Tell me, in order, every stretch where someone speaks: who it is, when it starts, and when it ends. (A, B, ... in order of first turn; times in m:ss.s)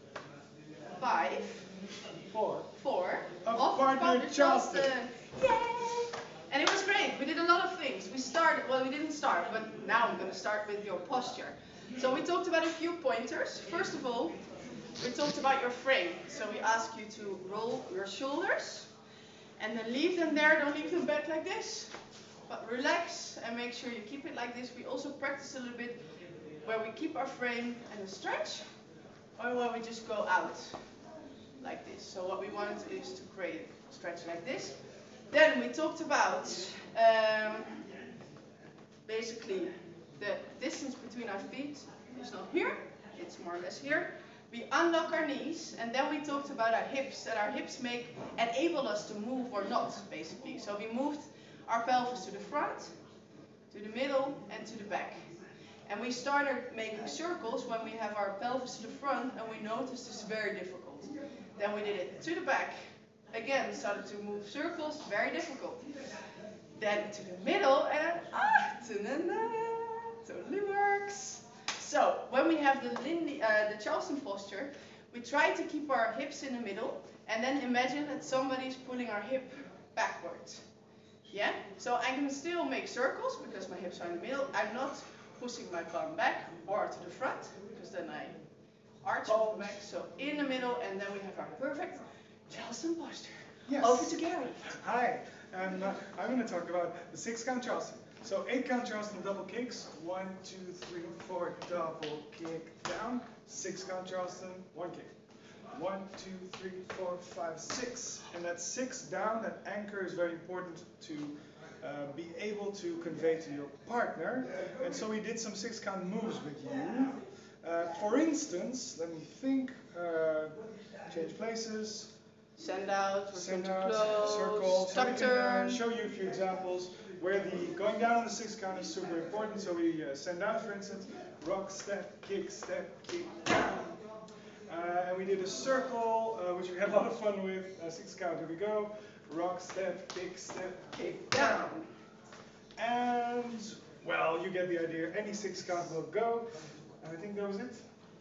0:01.0-0:01.7 A
0:02.3-0:02.7 B
0:02.7-0:14.4 A
0:03.4-0:04.9 B
0:15.0-0:18.9 A
0:19.6-0:21.9 A
0:22.5-0:26.0 A
0:26.6-0:28.6 A
0:29.4-0:30.8 A
0:31.6-0:34.8 A
0:35.3-0:37.8 A
0:39.0-0:52.9 A
0:53.7-0:55.3 A
0:55.9-1:02.8 A
1:03.3-1:05.9 A
1:06.8-1:20.6 A
1:21.3-1:28.4 A
1:29.0-1:34.7 A
1:29.3-1:29.8 B
1:33.7-1:34.1 B
1:34.7-1:45.1 B
1:45.7-2:02.1 B
2:02.6-2:05.8 A
2:03.3-2:14.0 B
2:14.7-2:21.8 B
2:20.9-2:21.9 A
2:22.8-2:27.8 B